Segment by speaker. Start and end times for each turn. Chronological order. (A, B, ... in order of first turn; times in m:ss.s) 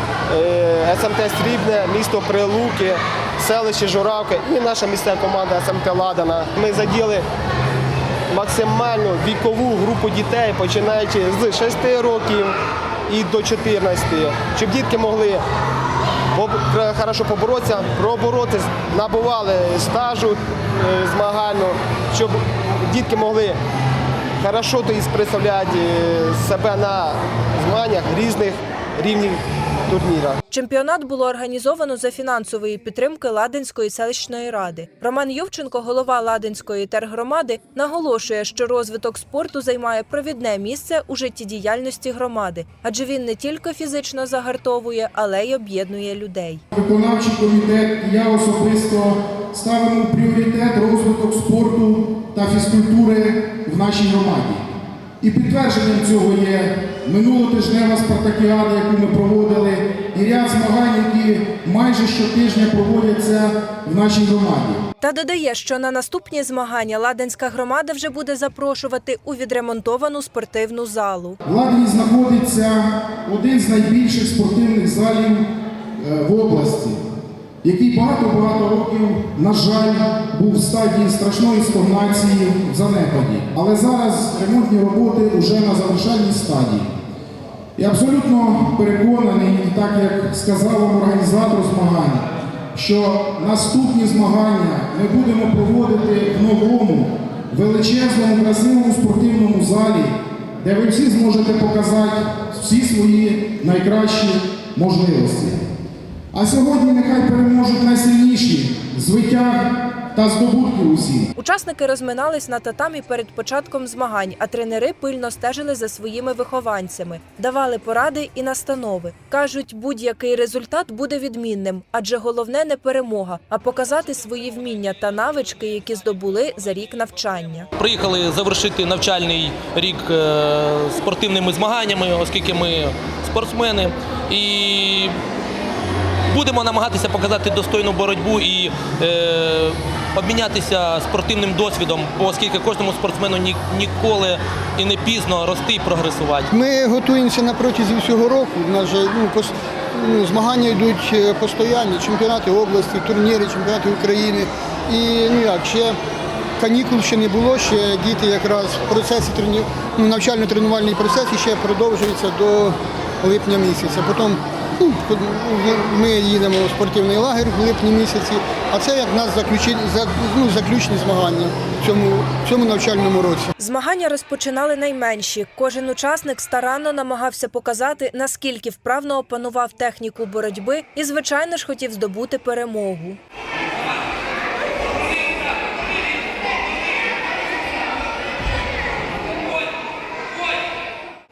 0:00.3-0:07.2 A
0:08.3-0:12.5 A
0:13.1-0:15.4 A
0:16.3-0:23.6 A
0:24.4-0:30.4 A
0:30.5-0:46.6 B
0:46.7-0:54.7 C
0:55.2-1:04.8 C
1:05.0-1:11.4 B
1:11.4-1:17.0 C
1:17.6-1:26.9 C
1:27.8-1:45.6 C
1:46.3-1:51.3 C
1:51.4-2:07.7 B
2:07.8-2:15.2 D
2:16.3-2:26.5 D
2:26.5-2:36.0 E
2:36.6-2:53.5 E
2:53.6-3:03.2 B